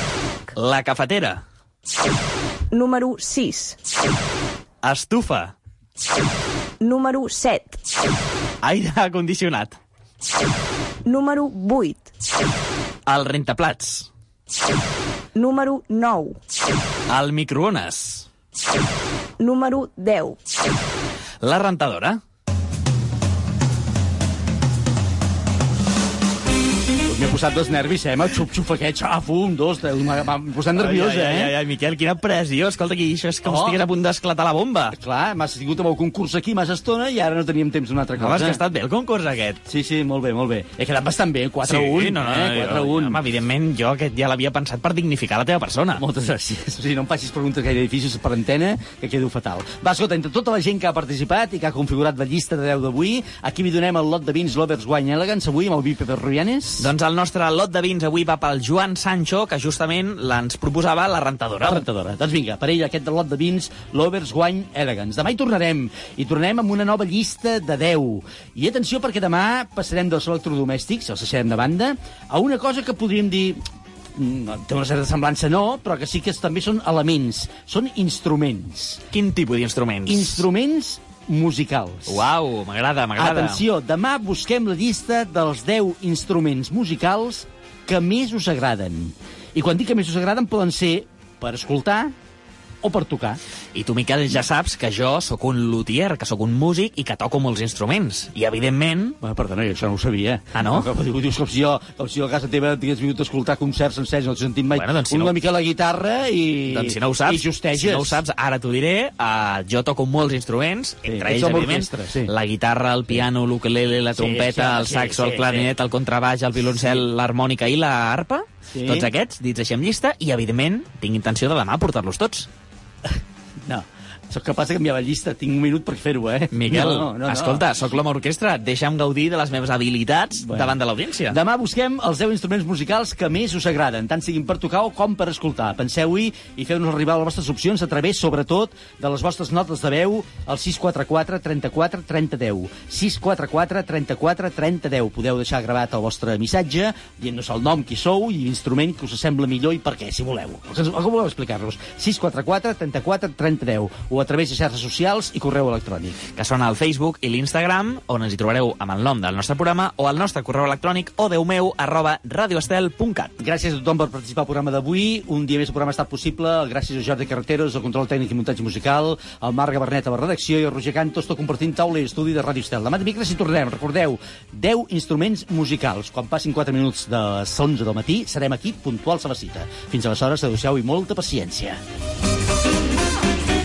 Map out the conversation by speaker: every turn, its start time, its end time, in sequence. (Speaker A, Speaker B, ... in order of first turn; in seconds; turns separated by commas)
Speaker A: 0.6-1.4, Speaker B: 2.7-3.8, Speaker A: 4.8-5.5, Speaker B: 6.8-7.8, Speaker A: 8.6-9.8, Speaker B: 11.1-12.1, Speaker A: 13.1-14.1, Speaker B: 15.3-16.4, Speaker A: 17.1-18.3, Speaker B: 19.4-20.4, Speaker A: 21.4-22.2, Speaker C: 27.1-31.6, Speaker A: 30.7-35.0, Speaker C: 33.4-33.8, Speaker C: 34.9-38.6, Speaker A: 38.2-39.6, Speaker C: 39.7-43.2, Speaker A: 41.6-46.0, Speaker C: 46.0-56.9, Speaker A: 56.8-61.8, Speaker C: 61.6-73.6, Speaker C: 74.1-79.0, Speaker A: 79.1-80.5, Speaker C: 80.0-82.3, Speaker A: 82.1-83.6, Speaker C: 83.2-92.1, Speaker C: 92.8-93.4, Speaker A: 93.7-99.2, Speaker C: 99.2-108.2, Speaker A: 100.5-100.9, Speaker A: 104.7-105.3, Speaker A: 106.7-122.5, Speaker C: 111.0-112.3, Speaker C: 114.2-115.7, Speaker C: 116.6-117.0, Speaker C: 118.7-119.1, Speaker C: 123.0-127.8, Speaker A: 126.5-131.4, Speaker C: 130.4-130.8, Speaker C: 131.3-156.2, Speaker A: 156.3-163.4, Speaker C: 163.4-181.8